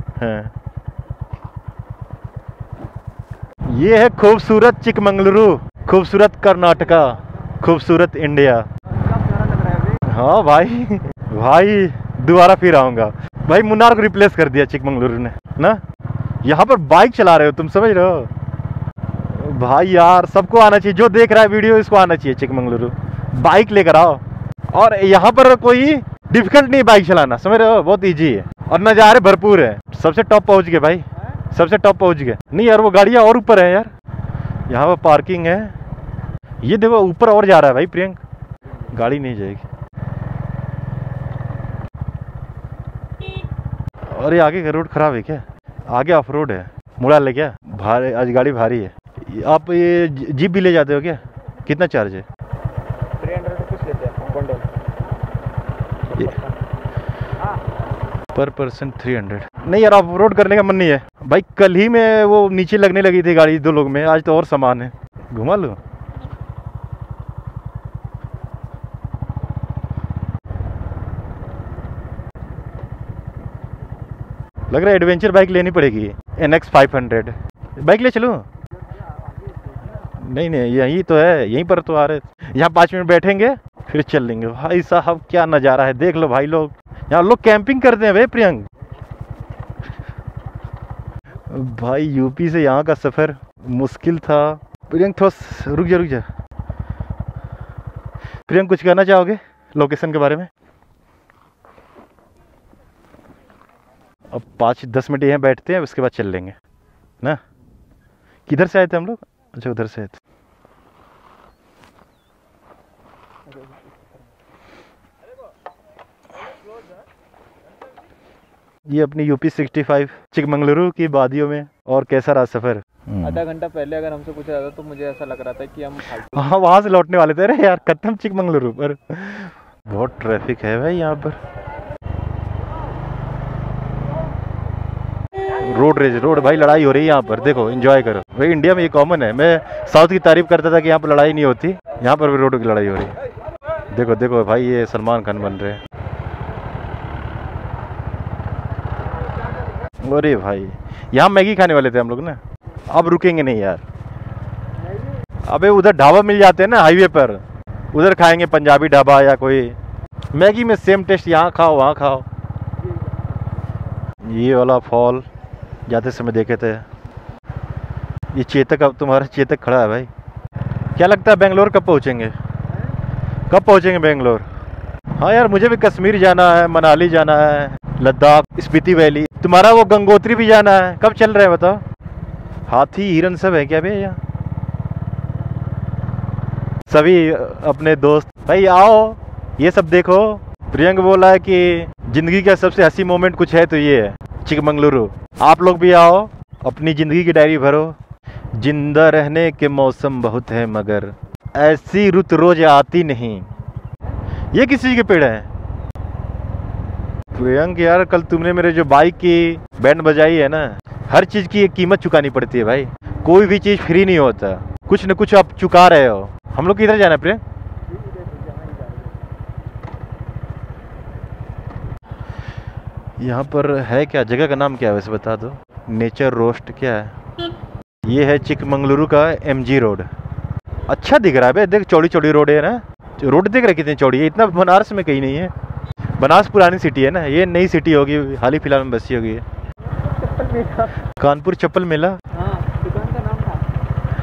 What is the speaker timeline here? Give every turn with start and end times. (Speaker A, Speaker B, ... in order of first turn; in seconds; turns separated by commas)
Speaker A: 0.2-0.5, Speaker A: 3.7-8.6, Speaker B: 9.0-10.0, Speaker A: 10.1-15.8, Speaker A: 16.4-18.3, Speaker A: 19.3-24.2, Speaker A: 24.7-33.9, Speaker A: 34.7-35.7, Speaker A: 36.6-38.2, Speaker A: 38.9-39.6, Speaker A: 44.1-52.2, Speaker B: 53.2-54.7, Speaker B: 56.1-56.5, Speaker A: 58.3-65.8, Speaker A: 74.7-78.4, Speaker A: 80.2-88.6, Speaker A: 91.5-96.2, Speaker A: 98.5-100.5, Speaker A: 104.3-106.5, Speaker A: 108.5-110.2, Speaker A: 118.9-123.4, Speaker B: 123.2-126.4, Speaker A: 126.3-131.4, Speaker A: 135.6-143.1, Speaker A: 143.9-145.8, Speaker A: 150.1-152.4, Speaker A: 152.9-153.8, Speaker A: 155.5-157.4, Speaker A: 157.9-159.7, Speaker A: 160.3-162.2, Speaker A: 164.3-165.2, Speaker A: 165.9-166.8, Speaker A: 168.3-170.1, Speaker A: 170.9-172.3, Speaker A: 173.5-174.4, Speaker A: 175.2-181.8, Speaker A: 182.7-184.2, Speaker A: 186.9-197.9, Speaker A: 198.6-203.4, Speaker A: 204.5-205.5, Speaker A: 207.3-217.4, Speaker B: 218.5-218.8, Speaker A: 223.2-227.1, Speaker A: 228.1-230.1, Speaker A: 230.9-235.5, Speaker A: 236.2-239.4, Speaker B: 240.0-241.0, Speaker A: 241.2-242.2, Speaker B: 242.3-243.6